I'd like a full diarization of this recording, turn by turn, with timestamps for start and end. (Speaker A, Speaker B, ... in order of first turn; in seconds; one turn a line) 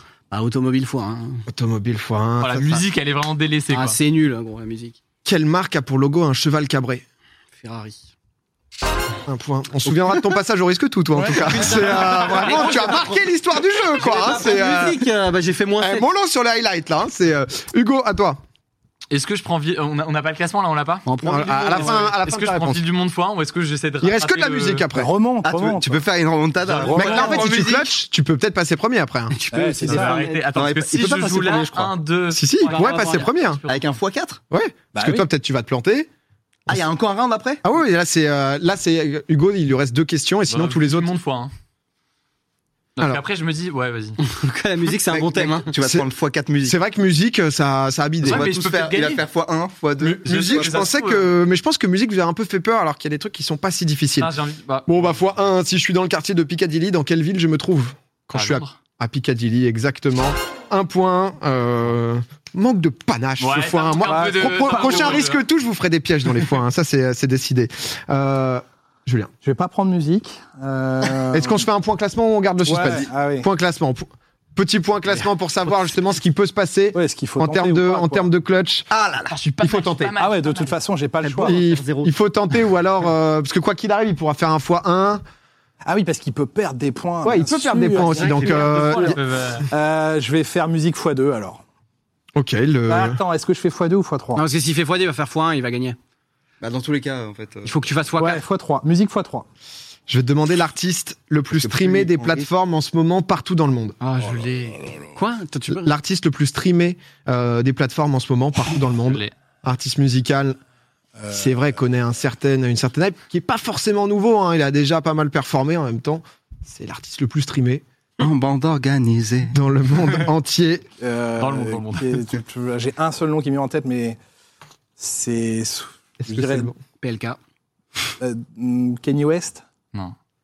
Speaker A: 0.3-1.5
Speaker B: 1.5-2.8
Speaker C: 2.4-4.0
Speaker A: 3.7-5.0
Speaker B: 5.2-7.0
Speaker A: 7.6-8.1
Speaker B: 9.2-15.0
Speaker A: 11.3-13.3
Speaker A: 13.9-16.1
Speaker B: 15.8-18.4
Speaker C: 19.1-21.1
Speaker A: 21.1-22.1
Speaker B: 21.2-22.8
Speaker C: 21.7-24.9
Speaker B: 24.0-25.1
Speaker D: 24.9-26.0
Speaker E: 25.4-27.9
Speaker D: 26.6-27.5
Speaker C: 26.7-27.5
Speaker B: 26.9-29.3
Speaker A: 29.3-30.5
Speaker D: 29.5-30.2
Speaker C: 29.8-33.8
Speaker E: 30.5-31.9
Speaker B: 32.3-33.6
Speaker A: 32.6-33.2
Speaker E: 33.7-34.4
Speaker B: 34.5-36.1
Speaker D: 34.9-35.2
Speaker E: 36.7-37.6
Speaker B: 37.6-41.1
Speaker C: 40.5-41.5
Speaker C: 43.0-44.2
Speaker B: 43.0-43.2
Speaker A: 44.2-45.7
Speaker E: 45.1-46.8
Speaker B: 45.8-46.1
Speaker B: 46.6-48.5
Speaker C: 48.2-49.2
Speaker E: 48.2-50.9
Speaker C: 50.0-51.3
Speaker B: 50.2-54.3
Speaker C: 54.2-55.0
Speaker B: 54.9-69.3
Speaker C: 58.3-58.7
Speaker C: 63.4-65.4
Speaker D: 64.0-65.0
Speaker D: 69.4-71.7
Speaker B: 71.3-78.9
Speaker D: 72.6-73.5
Speaker D: 76.9-78.3
Speaker E: 78.9-79.3
Speaker C: 79.3-80.7
Speaker B: 79.6-80.1
Speaker D: 80.2-81.6
Speaker A: 81.2-82.1
Speaker B: 81.4-85.2
Speaker D: 85.8-88.7
Speaker B: 87.2-89.2
Speaker A: 88.0-89.2
Speaker C: 88.4-89.7
Speaker D: 89.7-91.6
Speaker B: 92.3-93.2
Speaker D: 92.9-94.4
Speaker A: 94.3-96.0
Speaker E: 96.6-97.8
Speaker A: 97.6-98.4
Speaker D: 98.2-99.5
Speaker B: 100.1-104.0
Speaker E: 101.5-102.5
Speaker C: 104.0-105.0
Speaker A: 105.1-105.9
Speaker B: 105.7-110.6
Speaker C: 109.0-109.3
Speaker B: 111.3-117.8
Speaker E: 118.2-119.5
Speaker B: 119.5-120.8
Speaker D: 121.0-124.2
Speaker C: 121.4-122.2
Speaker D: 125.0-126.7
Speaker B: 126.2-126.8
Speaker A: 127.0-127.4
Speaker D: 128.2-129.6